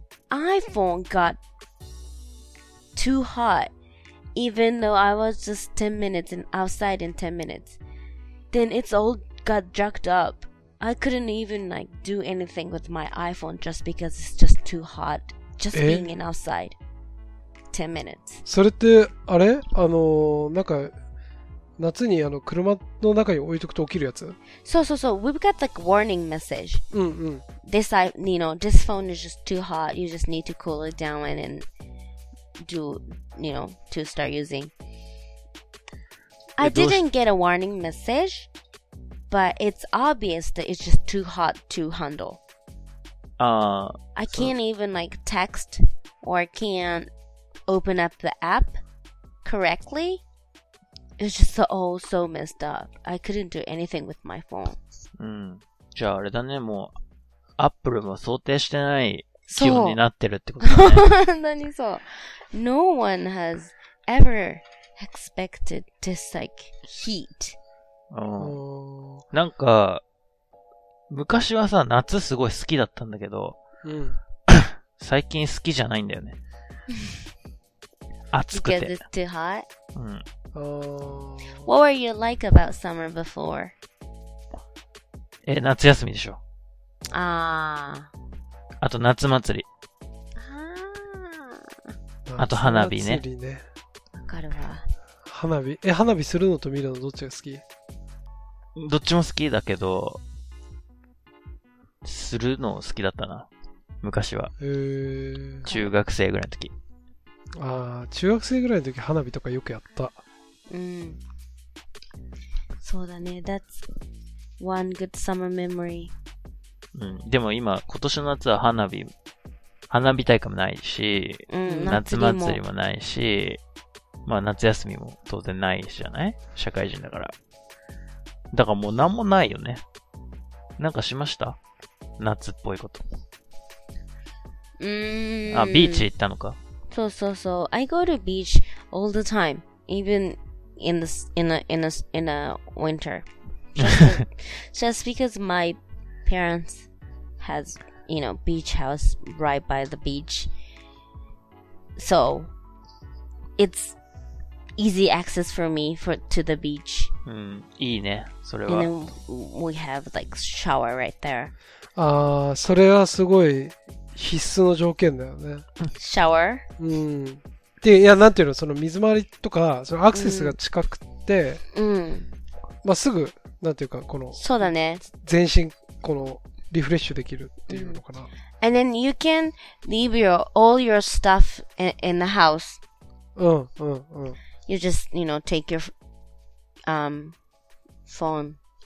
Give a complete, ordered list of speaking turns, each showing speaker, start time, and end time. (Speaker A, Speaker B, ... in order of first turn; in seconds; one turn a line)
Speaker A: 0.3-1.4
Speaker A: 2.9-3.7
Speaker A: 4.3-7.8
Speaker A: 8.5-16.8
Speaker B: 15.7-16.1
Speaker A: 17.7-18.4
Speaker B: 18.4-20.9
Speaker B: 21.8-24.4
Speaker A: 24.6-26.8
Speaker B: 26.9-27.4
Speaker A: 27.6-31.6
Speaker A: 32.6-34.7
Speaker A: 36.6-38.5
Speaker C: 36.6-37.0
Speaker A: 39.3-42.4
Speaker C: 43.4-44.5
Speaker A: 44.1-47.1
Speaker A: 47.7-48.8
Speaker A: 49.4-50.2
Speaker A: 51.2-54.8
Speaker C: 55.2-56.9
Speaker C: 57.6-61.1
Speaker A: 59.5-60.0
Speaker A: 60.6-67.5
Speaker C: 68.1-68.6
Speaker B: 68.4-69.2
Speaker C: 69.3-70.0
Speaker C: 71.1-73.6
Speaker B: 73.8-74.2
Speaker C: 74.5-76.4
Speaker C: 78.3-79.0
Speaker A: 78.5-79.7
Speaker C: 79.9-80.2
Speaker B: 80.5-81.7
Speaker A: 81.6-83.7
Speaker C: 85.5-86.4
Speaker A: 87.1-88.1
Speaker C: 88.8-89.7
Speaker A: 90.4-91.7
Speaker B: 92.2-93.6
Speaker C: 92.4-93.2
Speaker A: 94.2-94.9
Speaker B: 95.2-97.6
Speaker C: 98.8-100.2
Speaker C: 102.0-103.5
Speaker C: 104.0-104.5
Speaker B: 104.6-105.7
Speaker A: 105.7-105.9
Speaker C: 105.7-106.7
Speaker B: 107.6-110.2
Speaker A: 110.7-111.2
Speaker A: 112.8-113.8
Speaker A: 114.6-116.1
Speaker C: 116.9-119.1
Speaker C: 119.9-123.6
Speaker A: 121.5-122.6
Speaker C: 124.2-127.3
Speaker C: 128.5-129.8
Speaker C: 130.8-131.6
Speaker C: 132.2-133.0
Speaker A: 134.8-136.1
Speaker C: 135.5-136.6
Speaker A: 136.9-146.9
Speaker A: 147.4-150.5
Speaker A: 152.0-152.5
Speaker A: 153.6-153.9
Speaker A: 154.8-157.1
Speaker C: 157.2-158.9
Speaker A: 158.7-161.5
Speaker B: 161.9-165.7
Speaker A: 165.9-166.6
Speaker B: 166.8-171.6
Speaker A: 170.1-170.6
Speaker A: 171.7-172.3
Speaker B: 172.8-178.3
Speaker A: 174.3-175.0
Speaker A: 177.7-178.0
Speaker A: 178.6-182.8
Speaker B: 183.4-184.4
Speaker A: 184.7-185.9
Speaker A: 186.9-187.3
Speaker A: 188.1-188.6